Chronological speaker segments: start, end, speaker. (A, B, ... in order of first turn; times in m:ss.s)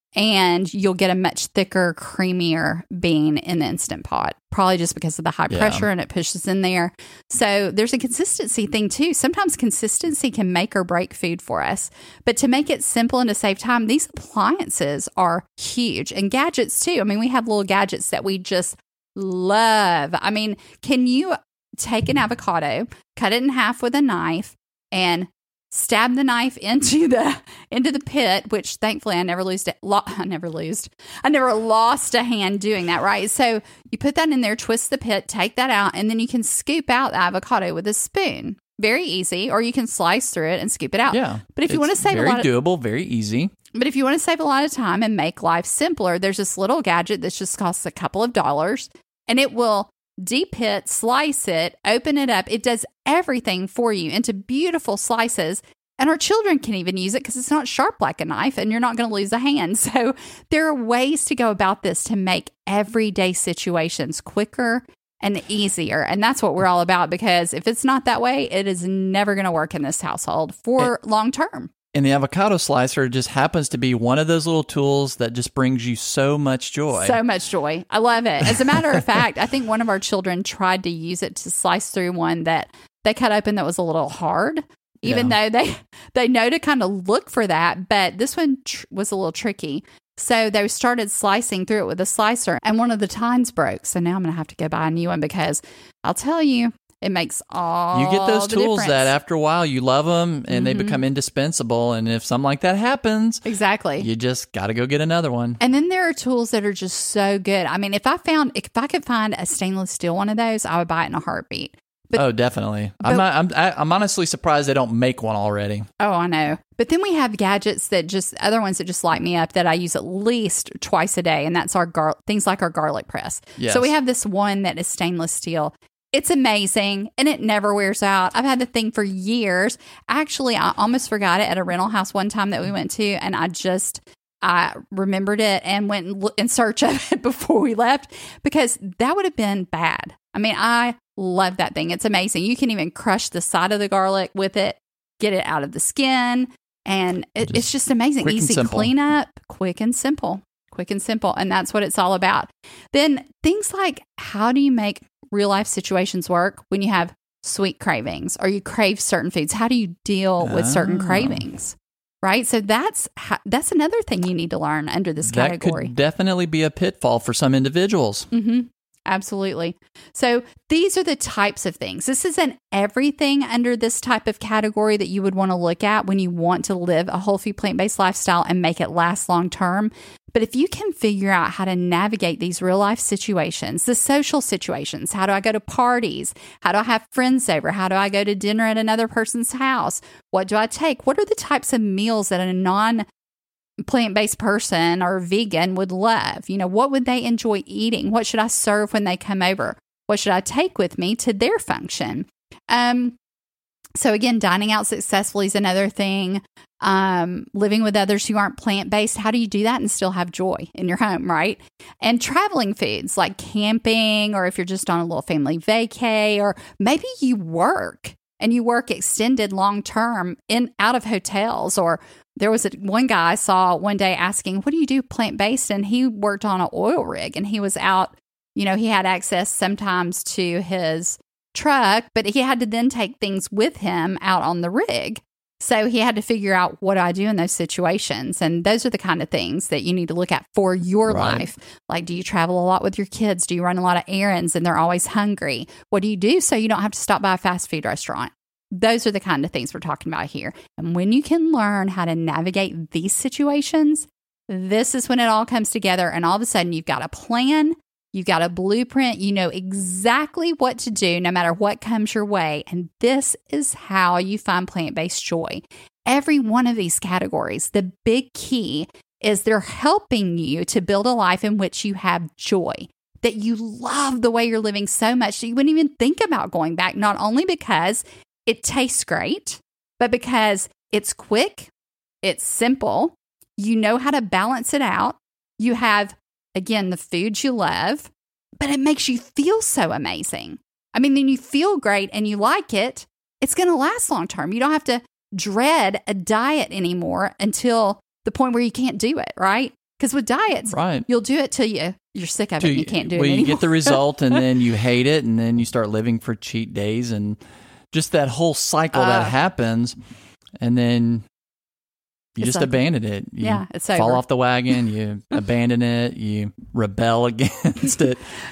0:00.2-0:42.5 A
0:05.5-0:05.8 B
0:41.1-0:43.5 B
0:43.7-1:11.7 A
1:11.9-1:17.2 B
1:16.9-1:39.1 A
1:25.0-1:25.3 B
1:37.9-1:43.4 B
1:40.5-1:41.0 A
1:43.4-1:44.1 A
1:44.0-1:45.6 B
1:45.6-1:52.2 A
1:52.2-1:55.9 B
1:56.0-2:45.9 A
2:03.6-2:03.9 B
2:28.2-2:28.9 B
2:40.4-2:41.4 B
2:45.2-2:48.3 B
2:48.3-3:13.0 A
3:13.8-3:23.2 A
3:24.0-4:41.7 A
4:01.1-4:01.5 B
4:42.2-5:04.0 A
5:00.7-5:01.0 B
5:02.6-5:07.4 B
5:07.9-5:10.0 B
5:08.9-5:09.3 A
5:10.6-5:11.2 B
5:12.4-5:18.2 B
5:12.4-5:12.8 A
5:13.4-5:14.2 A